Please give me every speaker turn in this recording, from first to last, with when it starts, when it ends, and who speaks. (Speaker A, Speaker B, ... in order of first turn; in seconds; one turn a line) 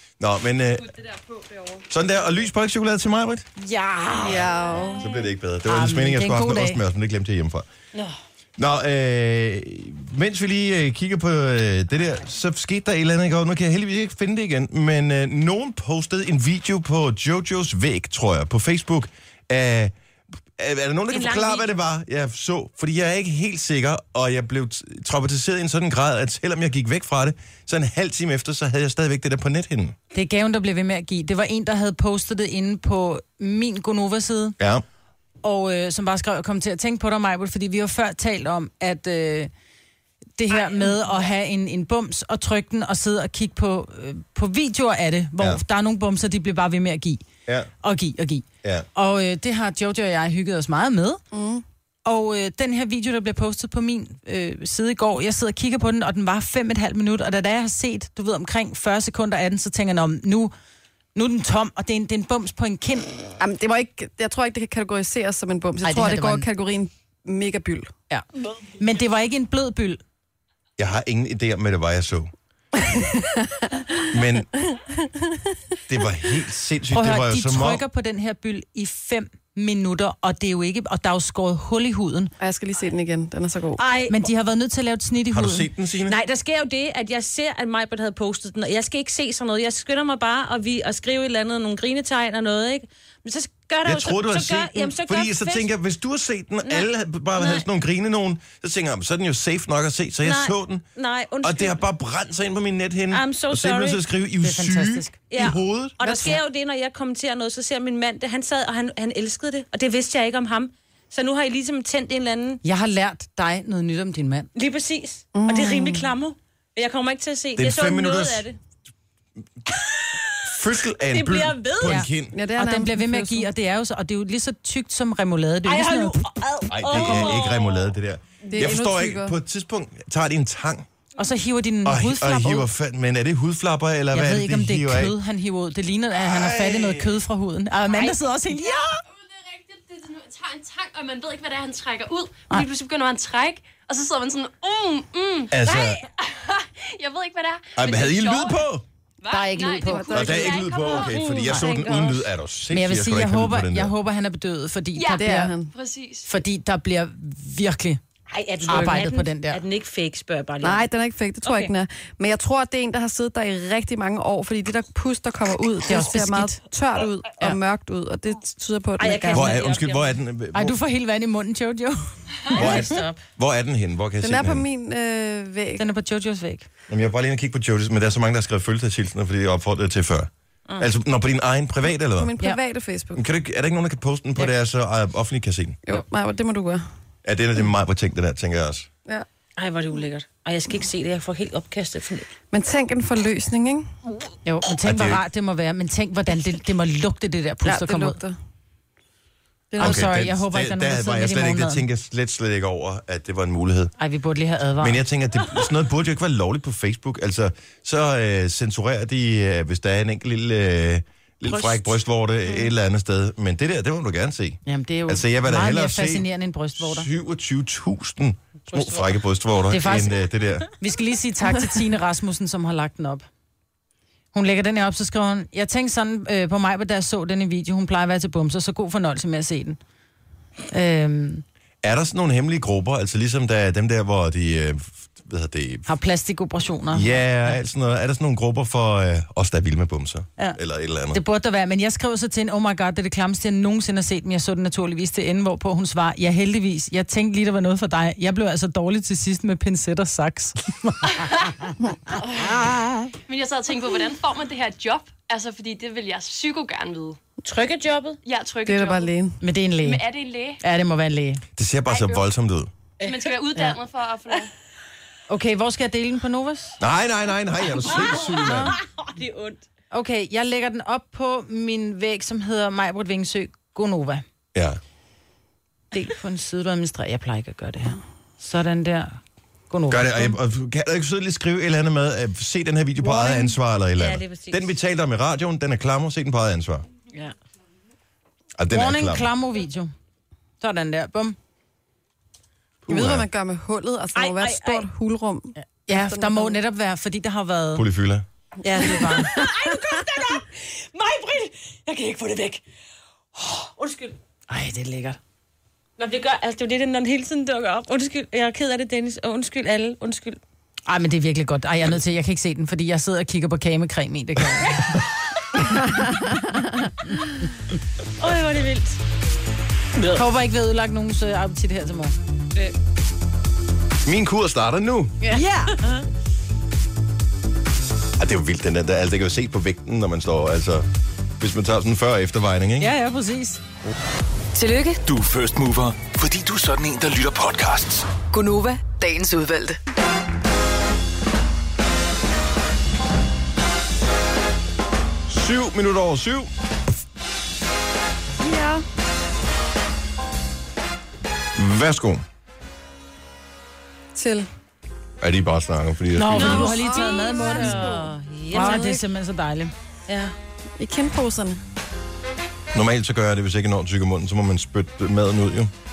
Speaker A: 0.2-0.9
Speaker B: 0.8-1.9
Speaker A: 1.9-3.5
Speaker C: 3.6-4.5
Speaker D: 4.2-5.1
Speaker A: 4.2-7.7
Speaker C: 5.7-6.8
Speaker A: 8.6-19.9
Speaker A: 20.6-29.9
Speaker E: 21.1-21.7
Speaker C: 30.1-34.5
Speaker A: 34.6-34.8
Speaker C: 35.4-39.5
Speaker C: 40.4-47.2
Speaker C: 47.8-51.2
Speaker D: 51.3-51.6
Speaker C: 52.0-60.5
Speaker C: 61.1-63.1
Speaker D: 63.4-67.9
Speaker C: 65.8-66.5
Speaker C: 68.8-70.0
Speaker A: 70.8-72.3
Speaker D: 72.9-74.1
Speaker A: 74.1-74.5
Speaker D: 74.7-75.4
Speaker A: 75.9-77.8
Speaker C: 76.9-82.3
Speaker D: 82.4-83.8
Speaker E: 83.8-84.2
Speaker C: 84.1-85.7
Speaker A: 85.3-86.2
Speaker E: 86.0-95.7
Speaker A: 93.8-100.8
Speaker E: 96.6-97.7
Speaker E: 100.2-101.8
Speaker A: 101.4-106.0
Speaker E: 103.1-104.0
Speaker C: 104.4-105.2
Speaker E: 105.3-112.6
Speaker D: 106.0-106.4
Speaker C: 112.6-114.5
Speaker E: 114.5-118.6
Speaker D: 115.3-116.1
Speaker A: 117.6-118.5
Speaker E: 119.8-120.4
Speaker A: 120.4-122.3
Speaker E: 121.1-122.1
Speaker C: 121.8-126.2
Speaker D: 122.3-123.5
Speaker E: 125.7-127.9
Speaker A: 126.7-130.8
Speaker C: 126.9-127.4
Speaker D: 128.4-129.3
Speaker C: 131.2-132.7
Speaker A: 131.8-135.2
Speaker C: 134.1-139.0
Speaker A: 136.2-137.2
Speaker B: 139.1-148.6
Speaker A: 145.5-146.0
Speaker A: 147.8-148.8
Speaker B: 149.2-151.5
Speaker C: 149.3-150.3
Speaker D: 149.8-150.8
Speaker A: 150.1-153.9
Speaker E: 151.0-152.3
Speaker C: 152.7-155.5
Speaker B: 154.9-156.3
Speaker D: 155.1-155.7
Speaker C: 156.2-158.0
Speaker E: 158.3-160.8
Speaker C: 158.6-159.6
Speaker D: 158.7-159.1
Speaker D: 160.6-169.5
Speaker C: 165.8-166.6
Speaker E: 169.0-170.1
Speaker A: 169.3-170.8
Speaker C: 170.5-172.8
Speaker E: 172.5-173.2
Speaker A: 172.5-174.6
Speaker D: 174.2-175.8
Speaker C: 175.8-176.7
Speaker A: 176.9-182.3
Speaker D: 182.2-183.2
Speaker A: 183.1-185.8
Speaker D: 185.8-186.8
Speaker A: 187.2-188.9
Speaker E: 189.6-192.3
Speaker D: 192.5-193.9
Speaker C: 194.4-198.2
Speaker A: 194.8-195.2
Speaker D: 197.6-198.3
Speaker D: 199.7-200.1
Speaker C: 199.8-201.8
Speaker A: 199.8-203.9
Speaker C: 204.0-205.0
Speaker A: 204.8-220.7
Speaker C: 214.7-217.1
Speaker E: 218.7-219.1
Speaker C: 219.7-220.2
Speaker C: 220.8-223.2
Speaker C: 224.3-229.8
Speaker C: 230.7-231.4
Speaker A: 231.8-235.9
Speaker C: 235.9-237.1
Speaker A: 236.9-241.2
Speaker C: 241.1-251.7
Speaker B: 253.3-257.2
Speaker E: 257.4-258.2
Speaker B: 258.2-259.1
Speaker D: 258.6-259.4
Speaker C: 259.4-260.0
Speaker B: 259.8-260.6
Speaker C: 260.6-261.4
Speaker A: 261.6-262.7
Speaker B: 261.9-262.2
Speaker E: 263.0-263.6
Speaker B: 263.0-264.5
Speaker C: 265.3-266.8
Speaker A: 266.8-268.8
Speaker E: 267.9-269.6
Speaker C: 269.9-274.2
Speaker A: 274.5-274.8
Speaker C: 275.9-279.2
Speaker C: 279.7-280.4
Speaker A: 279.9-286.9
Speaker C: 283.0-283.5
Speaker E: 283.9-284.7
Speaker A: 288.6-289.3
Speaker C: 288.7-289.9
Speaker C: 290.6-291.4
Speaker A: 292.8-293.3
Speaker D: 292.9-296.6
Speaker E: 294.1-294.9
Speaker C: 295.6-297.8
Speaker A: 297.7-298.2
Speaker E: 298.6-302.6
Speaker C: 298.7-299.3
Speaker D: 299.0-299.5
Speaker E: 303.3-304.2
Speaker C: 304.5-305.2
Speaker E: 306.0-310.4
Speaker C: 310.9-314.9
Speaker E: 318.2-319.0
Speaker C: 320.1-322.1
Speaker A: 324.0-325.2
Speaker C: 325.3-325.7
Speaker A: 328.2-330.9
Speaker A: 331.4-332.9
Speaker C: 332.8-333.6
Speaker F: 334.5-335.0
Speaker G: 335.0-338.1
Speaker F: 338.3-339.8
Speaker A: 345.3-346.5
Speaker D: 348.4-348.8
Speaker A: 351.6-352.2
Speaker D: 354.1-354.5
Speaker A: 355.2-356.8
Speaker C: 356.1-357.9
Speaker D: 356.3-359.0
Speaker E: 356.4-359.0
Speaker C: 358.5-359.7
Speaker E: 360.1-360.3
Speaker D: 360.8-361.6
Speaker A: 362.7-365.7